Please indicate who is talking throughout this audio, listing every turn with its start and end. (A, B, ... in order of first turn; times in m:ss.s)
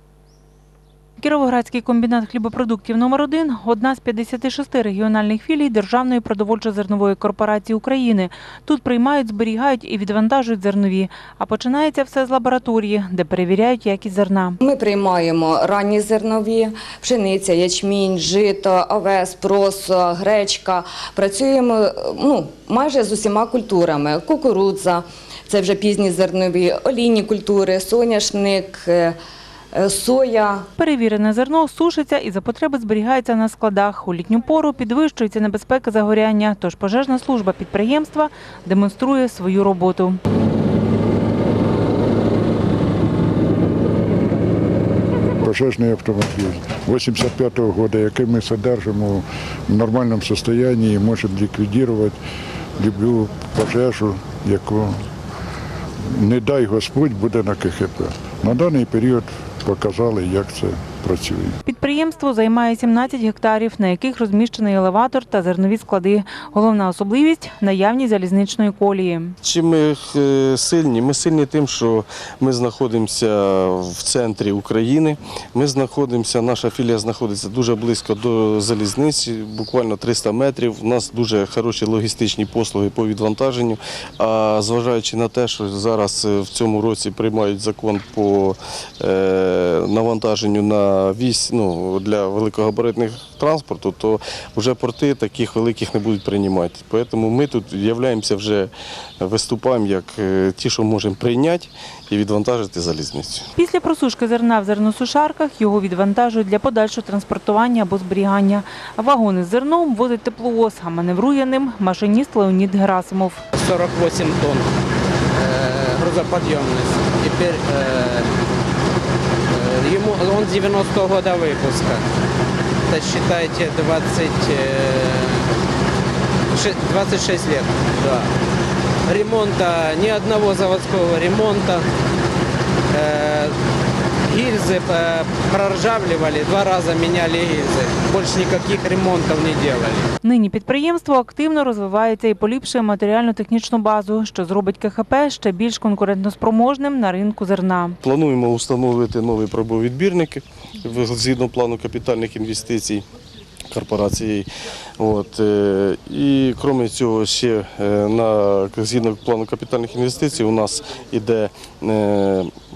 0:01.2-0:14.6 A
0:14.6-0:29.2 B
0:29.7-0:30.7 B
0:30.8-0:40.2 A
0:45.4-0:52.2 C
0:52.8-0:55.0 C
0:56.2-1:01.5 C
1:01.6-1:09.4 A
1:09.4-1:43.5 D
1:43.6-1:53.4 A
1:53.5-1:54.7 E
1:55.4-1:58.3 E
1:59.5-2:02.0 E
2:02.9-2:05.5 E
2:06.5-2:08.3 E
2:09.1-2:11.8 E
2:12.9-2:13.5 E
2:14.3-2:20.1 E
2:20.2-2:28.0 A
2:28.0-2:33.0 D
2:33.7-2:34.5 D
2:35.0-2:42.5 D